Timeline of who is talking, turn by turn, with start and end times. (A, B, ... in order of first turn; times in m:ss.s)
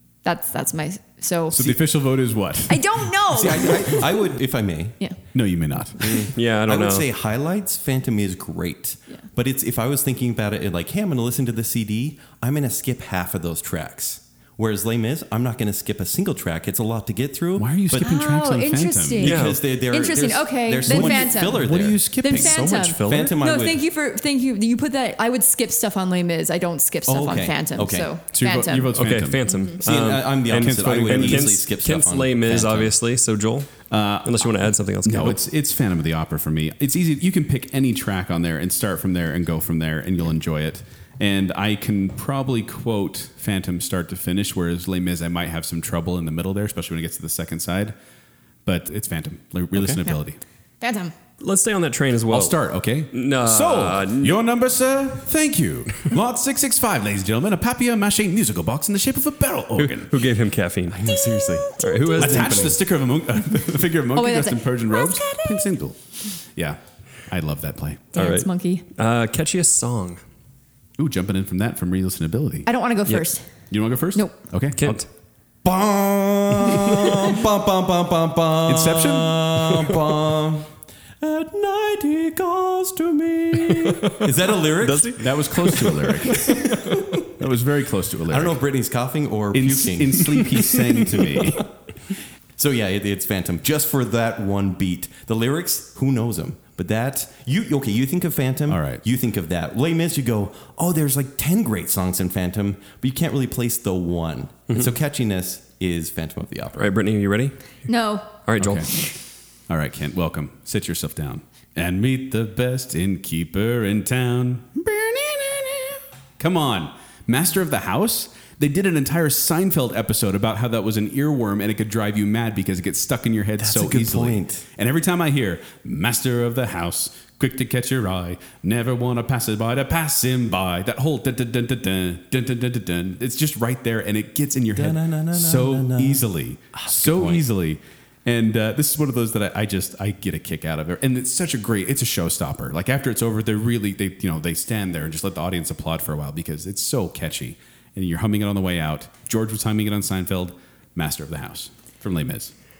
0:00.2-0:01.8 A
0:01.5-0:03.1 B
0:02.7-0:04.1 A
0:03.3-0:05.0 C
0:05.3-0:06.3 B
0:06.0-0:18.1 C
0:06.1-0:07.1 D
0:17.6-0:19.4 B
0:17.9-0:28.9 A
0:19.2-0:19.6 D
0:19.2-0:23.8 C
0:20.8-0:23.3 B
0:27.1-0:28.1 C
0:28.3-0:29.4 B
0:28.9-0:35.4 D
0:29.8-0:32.9 C
0:30.5-0:31.6 B
0:33.9-0:34.5 B
0:35.0-0:48.0 B
0:48.7-0:50.4 B
0:49.8-0:50.0 C
0:50.8-0:51.1 A
0:51.4-0:54.4 D
0:52.3-1:00.2 B
0:59.8-1:01.0 D
1:00.9-1:02.8 C
1:01.1-1:02.6 A
1:01.8-1:02.8 D
1:02.2-1:08.1 B
1:04.1-1:05.7 A
1:08.1-1:10.2 D
1:08.2-1:08.8 A
1:11.0-1:12.7 B
1:12.7-1:13.5 A
1:13.7-1:15.1 B
1:14.8-1:15.1 D
1:15.6-1:27.2 C
1:18.7-1:20.0 B
1:24.8-1:25.2 D
1:25.2-1:26.7 B
1:25.8-1:27.0 D
1:27.2-1:28.6 B
1:28.3-1:31.7 C
1:29.5-1:31.7 B
1:32.6-1:46.9 C
1:38.7-1:39.0 B
1:46.8-1:47.6 D
1:47.9-1:48.3 A
1:48.4-1:48.9 D
1:48.6-1:48.9 B
1:49.7-2:32.5 B
2:03.6-2:04.6 C
2:14.8-2:17.4 C